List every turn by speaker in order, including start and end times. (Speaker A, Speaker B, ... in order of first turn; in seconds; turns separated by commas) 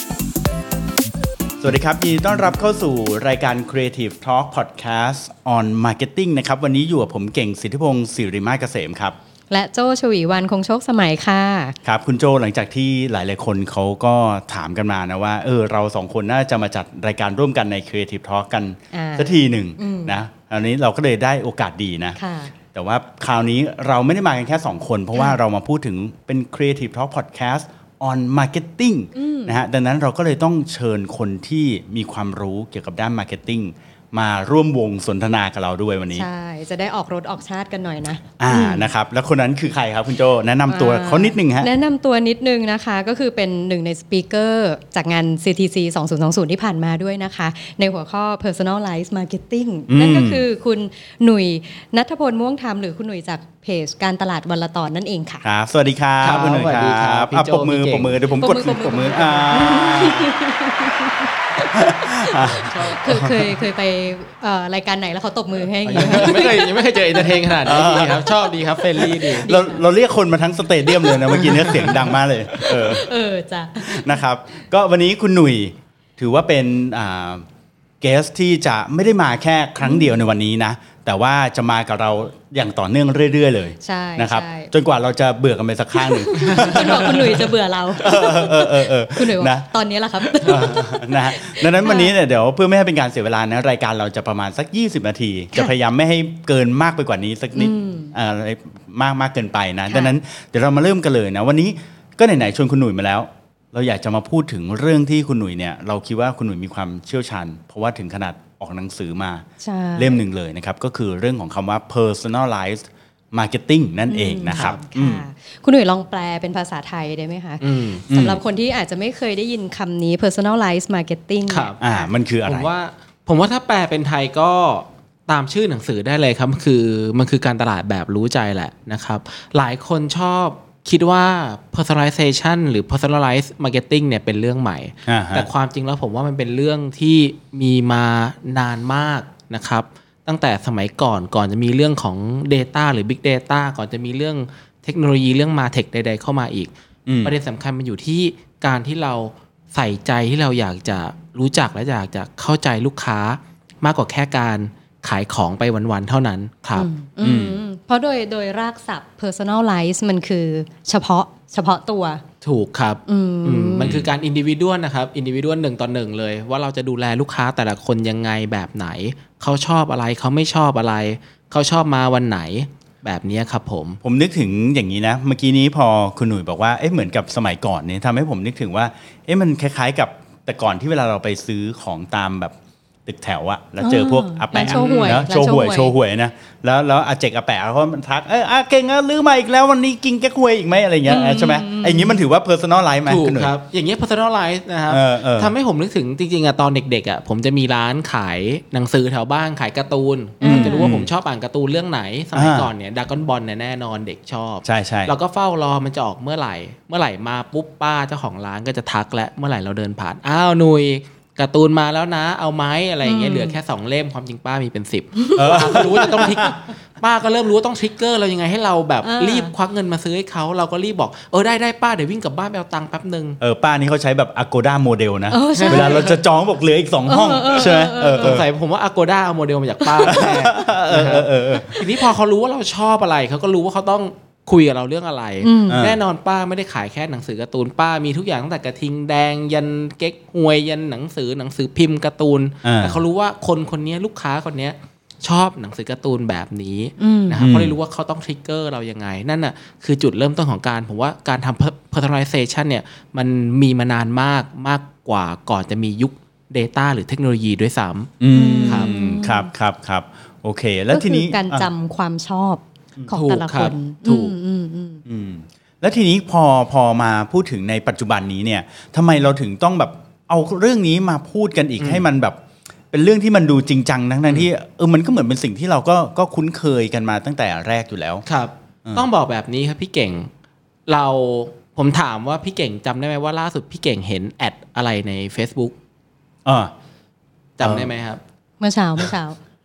Speaker A: 1.6-9.2, Speaker B: 9.5-11.8, Speaker A: 11.8-22.2, Speaker B: 18.9-20.2, Speaker B: 22.2-22.5, Speaker A: 22.7-36.3, Speaker B: 29.1-29.6, Speaker B: 36.1-38.9, Speaker A: 38.4-41.7, Speaker B: 40.7-55.4, Speaker A: 49.9-50.4, Speaker A: 55.4-60.3, Speaker C: 56.2-58.2, Speaker B: 58.3-68.3, Speaker A: 61.7-63.6, Speaker C: 62.5-63.0, Speaker C: 65.8-69.5, Speaker A: 65.9-66.4, Speaker A: 67.6-68.3, Speaker B: 69.0-69.8, Speaker A: 69.0-73.1, Speaker B: 70.8-71.9, Speaker C: 71.4-72.1, Speaker B: 72.6-74.2, Speaker A: 73.8-77.5, Speaker A: 78.0-115.2, Speaker B: 79.8-80.2, Speaker B: 83.8-84.7, Speaker B: 85.9-92.1, Speaker C: 86.4-86.7, Speaker B: 97.5-98.1, Speaker B: 99.9-100.1, Speaker B: 109.6-110.2, Speaker B: 114.1-122.1, Speaker C: 114.5-114.8, Speaker C: 117.6-118.0, Speaker A: 118.1-118.4, Speaker C: 121.5-121.8, Speaker A: 121.8-122.7, Speaker C: 122.4-146.7, Speaker A: 135.1-135.5, Speaker A: 147.1-147.3, Speaker C: 147.2-156.9, Speaker B: 156.8-162.2, Speaker A: 157.2-157.6, Speaker C: 162.4-174.0, Speaker B: 163.1-163.9, Speaker A: 163.8-164.1, Speaker A: 174.0-182.5, Speaker A: 183.1-193.5, Speaker B: 183.8-185.9, Speaker C: 184.5-185.2, Speaker B: 191.1-192.2, Speaker C: 193.1-223.4, Speaker A: 194.9-195.5, Speaker B: 200.4-200.9, Speaker A: 200.4-201.1, Speaker A: 202.3-202.7, Speaker A: 204.6-205.1, Speaker B: 213.0-213.6, Speaker B: 215.2-216.5, Speaker A: 215.3-216.5, Speaker B: 219.0-219.5, Speaker A: 223.4-228.5, Speaker B: 225.3-226.0, Speaker C: 225.5-226.2, Speaker B: 227.1-228.4, Speaker C: 228.2-258.1, Speaker A: 230.0-231.8, Speaker B: 235.4-235.9, Speaker A: 235.7-236.0, Speaker A: 242.6-243.0, Speaker B: 247.0-247.4, Speaker A: 247.4-247.7, Speaker A: 258.2-261.7, Speaker B: 258.3-259.5, Speaker C: 258.6-258.9, Speaker B: 260.9-265.0, Speaker C: 263.1-264.3, Speaker A: 265.1-278.2, Speaker C: 271.8-272.0, Speaker C: 278.2-280.3, Speaker C: 280.9-285.7, Speaker A: 286.4-286.7, Speaker C: 287.6-288.2, Speaker A: 287.6-287.9, Speaker B: 288.6-289.4